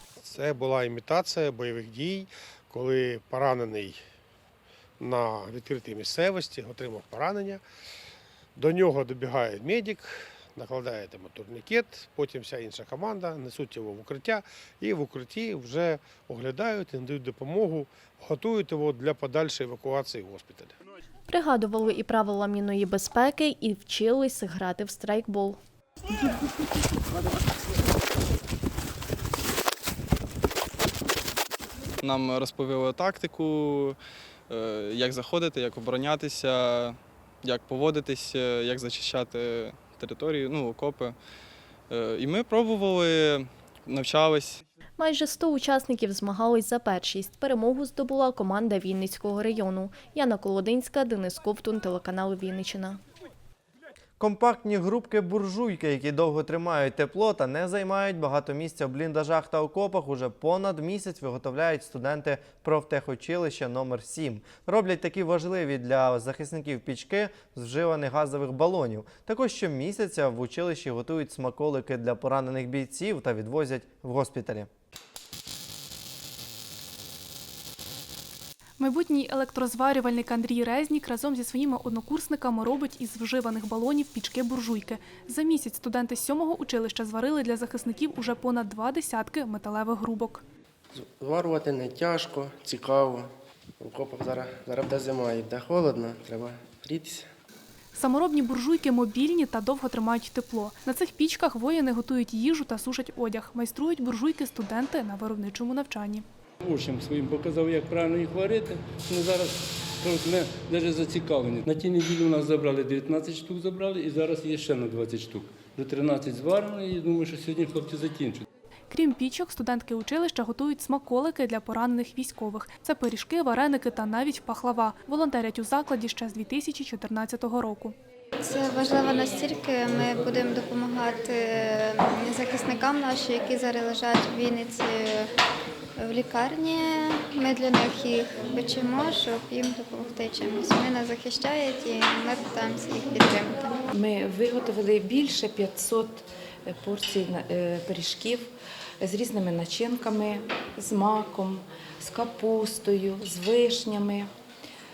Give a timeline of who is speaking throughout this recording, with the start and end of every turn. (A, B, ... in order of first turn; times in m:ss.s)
0:00.2-0:04.0 A
0:05.0-0:07.6 A
0:08.6-0:20.7 A
0:21.3-0:25.6 B
0:32.0-0:34.0 C
0:34.5-0:41.2 C
0:41.9-0:44.6 C
0:45.0-0:53.0 B
0:54.2-1:14.7 D
1:18.8-1:30.4 E
1:31.0-1:37.3 F
1:37.9-1:46.2 E
1:46.6-1:58.4 G
1:58.9-2:08.0 E
2:08.4-2:15.3 H
2:16.0-2:23.7 H
2:23.9-2:34.3 I